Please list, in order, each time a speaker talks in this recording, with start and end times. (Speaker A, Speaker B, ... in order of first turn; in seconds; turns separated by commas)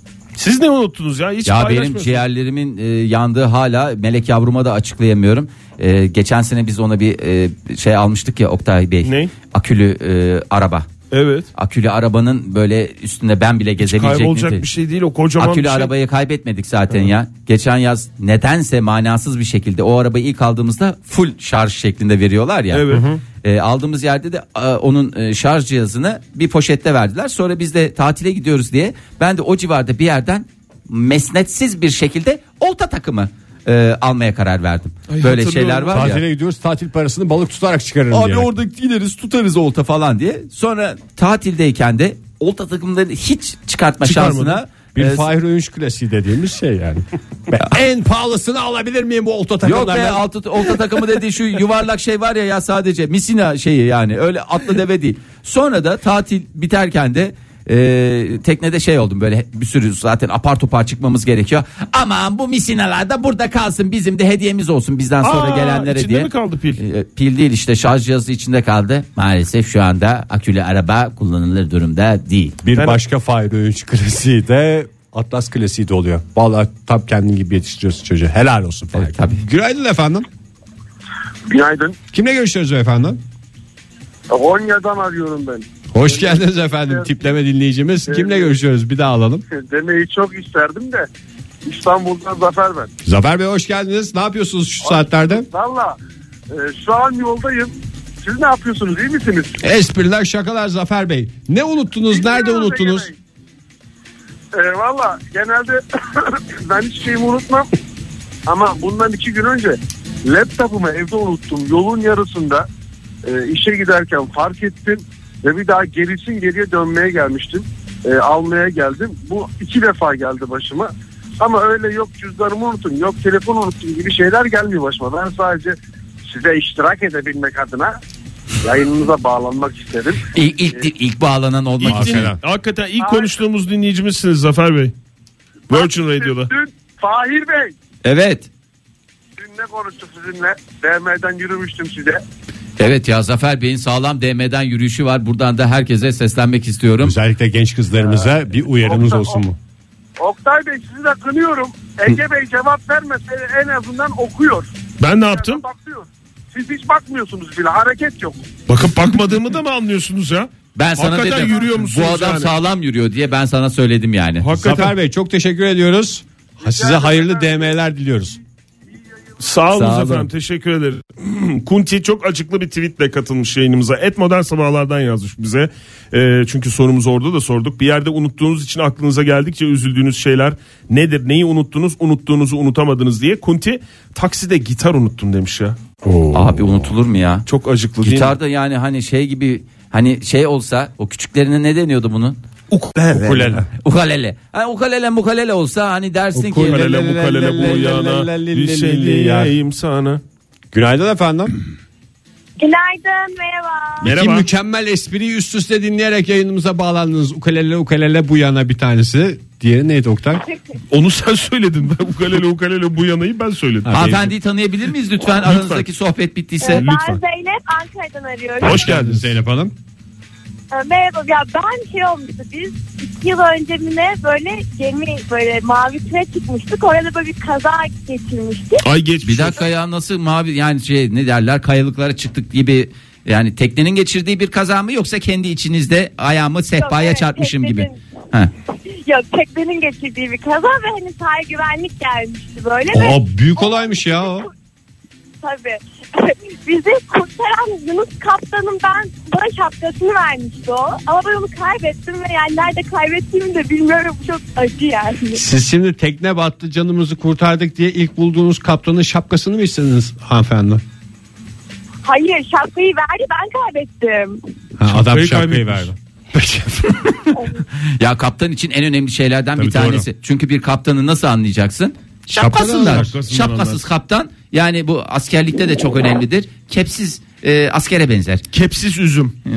Speaker A: 0.3-2.2, Speaker B: 1.4-10.9, Speaker A: 9.0-9.3, Speaker A: 11.1-11.5, Speaker B: 11.5-14.6, Speaker A: 13.8-15.9, Speaker B: 15.4-36.2, Speaker A: 22.7-23.1, Speaker C: 22.9-23.2, Speaker A: 35.1-36.1, Speaker C: 35.9-38.5, Speaker B: 38.1-45.3, Speaker A: 44.0-44.6, Speaker C: 44.9-50.8, Speaker B: 49.6-72.6, Speaker A: 65.2-66.8, Speaker C: 72.6-80.2, Speaker B: 78.9-79.4, Speaker D: 81.5-82.0, Speaker C: 82.1-83.2, Speaker D: 84.3-87.1, Speaker C: 85.9-89.4, Speaker D: 88.1-88.5, Speaker D: 89.5-91.1, Speaker D: 91.7-92.9, Speaker C: 93.0-95.5, Speaker D: 94.8-96.0, Speaker D: 96.5-99.6, Speaker C: 99.6-103.1, Speaker D: 102.1-103.2, Speaker D: 104.5-107.7, Speaker D: 108.5-112.7, Speaker D: 113.2-128.0, Speaker D: 128.6-130.2, Speaker B: 130.3-132.3, Speaker A: 131.8-134.9, Speaker C: 131.8-132.4, Speaker D: 133.0-133.3, Speaker A: 135.7-136.5, Speaker D: 135.7-137.7, Speaker B: 138.0-138.5, Speaker D: 139.4-142.2, Speaker B: 142.8-147.2, Speaker C: 147.0-149.6, Speaker D: 148.0-148.3, Speaker D: 148.8-149.4, Speaker D: 150.2-154.7, Speaker A: 155.0-155.6, Speaker D: 155.3-158.4, Speaker A: 158.7-162.5, Speaker B: 160.7-164.5, Speaker A: 164.4-164.9, Speaker C: 164.5-168.4, Speaker D: 166.6-167.7, Speaker A: 169.4-185.8, Speaker B: 169.7-170.3, Speaker C: 186.0-186.9, Speaker B: 186.3-187.4, Speaker A: 187.4-188.3, Speaker B: 188.0-192.4, Speaker A: 192.7-193.6, Speaker C: 193.1-193.7, Speaker B: 193.7-196.8, Speaker C: 196.3-199.5, Speaker A: 196.6-200.2, Speaker C: 200.7-201.6, Speaker E: 202.6-204.0, Speaker C: 204.0-210.4, Speaker A: 204.0-204.4, Speaker A: 210.9-214.3, Speaker C: 213.9-214.1, Speaker B: 213.9-216.9, Speaker A: 215.3-215.8, Speaker E: 216.6-218.8, Speaker A: 216.8-217.2, Speaker C: 218.6-219.7, Speaker A: 218.6-219.3, Speaker E: 220.7-228.8, Speaker A: 228.8-229.6, Speaker B: 229.2-238.5, Speaker E: 236.8-238.0, Speaker E: 238.9-244.5, Speaker C: 242.9-244.5, Speaker E: 245.4-255.4, Speaker C: 255.3-260.8, Speaker E: 262.0-264.4, Speaker C: 264.8-267.3, Speaker A: 264.9-265.9, Speaker B: 267.9-278.4, Speaker C: 269.6-270.1, Speaker C: 272.3-273.1, Speaker A: 272.7-273.8, Speaker A: 278.5-279.3